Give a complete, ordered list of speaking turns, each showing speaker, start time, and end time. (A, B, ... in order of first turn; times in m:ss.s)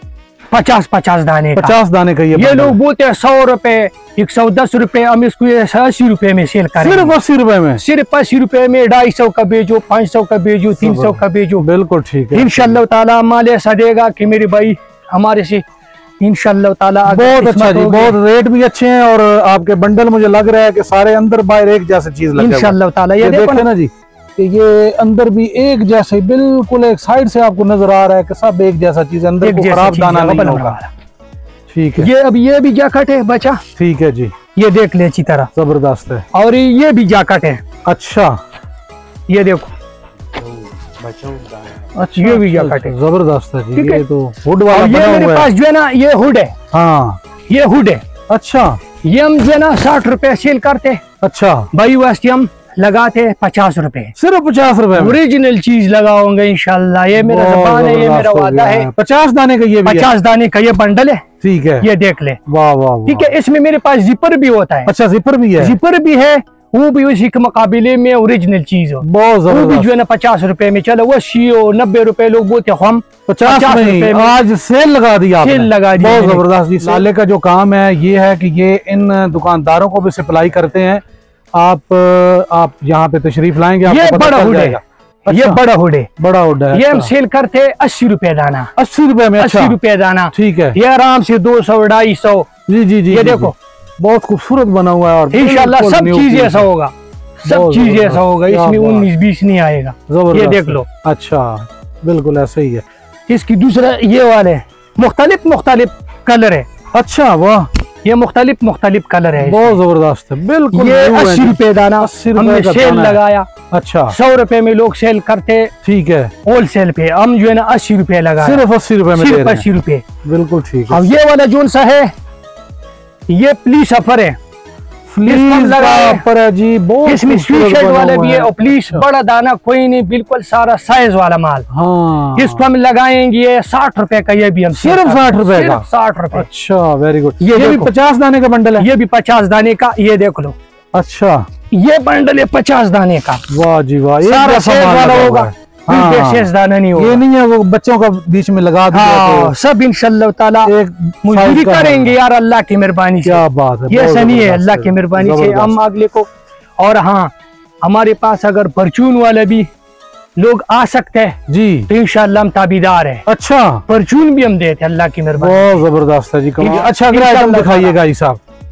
0:00.5-0:01.8 A
0:01.6-0:02.8 B
0:02.3-0:07.2 A
0:06.8-0:07.8 B
0:07.8-0:11.6 A
0:10.8-0:12.8 B
0:12.3-0:15.6 A
0:16.2-0:18.2 A
0:17.1-0:30.8 B
0:22.4-0:23.6 A
0:29.4-0:30.9 A
0:31.7-0:32.1 B
0:32.0-0:33.6 A
0:33.8-0:34.3 B
0:34.6-0:35.5 A
0:35.6-0:36.2 B
0:36.3-0:37.6 A
0:37.9-0:38.4 B
0:39.3-0:39.7 A
0:41.9-0:45.5 B
0:42.2-0:43.0 A
0:43.8-0:44.0 A
0:44.7-0:46.6 A
0:46.7-0:47.2 B
0:47.5-0:48.0 A
0:48.3-0:48.8 B
0:49.0-0:51.0 A
0:51.2-0:51.7 B
0:51.7-0:54.1 A
0:54.2-0:55.2 B
0:54.9-0:58.9 A
0:57.2-1:00.1 B
0:59.8-1:01.2 A
1:01.4-1:01.9 B
1:01.8-1:02.4 A
1:02.5-1:03.3 B
1:03.0-1:04.9 A
1:04.9-1:05.8 B
1:05.6-1:14.4 A
1:09.0-1:09.9 B
1:13.3-1:21.0 B
1:15.4-1:17.1 A
1:21.5-1:25.6 B
1:23.8-1:26.1 A
1:26.2-1:27.1 B
1:26.7-1:28.7 A
1:28.8-1:29.8 B
1:29.4-1:32.5 A
1:30.3-1:30.8 B
1:32.7-1:36.6 B
1:33.1-1:33.6 A
1:35.3-1:36.9 A
1:37.4-1:39.1 B
1:37.4-1:40.9 A
1:40.1-1:42.8 B
1:43.3-1:46.7 A
1:46.9-1:47.7 B
1:48.0-1:49.8 A
1:49.4-1:53.2 B
1:50.7-1:53.5 A
1:53.7-1:54.1 B
1:54.1-1:55.7 A
1:55.8-1:56.3 B
1:56.4-2:00.0 A
1:58.4-1:59.6 B
2:00.2-2:01.1 B
2:00.9-2:02.1 A
2:03.3-2:04.4 A
2:05.1-2:09.0 B
2:05.2-2:06.2 A
2:07.0-2:11.7 A
2:11.7-2:12.6 B
2:12.3-2:16.5 A
2:14.7-2:18.9 B
2:17.4-2:17.9 A
2:18.8-2:20.6 A
2:20.9-2:21.5 B
2:21.7-2:23.4 A
2:23.5-2:29.5 B
2:24.2-2:27.2 A
2:28.9-2:30.7 A
2:30.6-2:32.1 B
2:31.2-2:36.3 A
2:33.2-2:35.8 B
2:36.8-2:37.3 A
2:37.8-2:39.7 A
2:40.4-2:41.4 A
2:41.5-2:41.9 B
2:41.9-2:43.2 A
2:43.3-2:43.8 B
2:43.9-2:45.8 A
2:45.4-2:48.4 B
2:46.6-2:48.0 A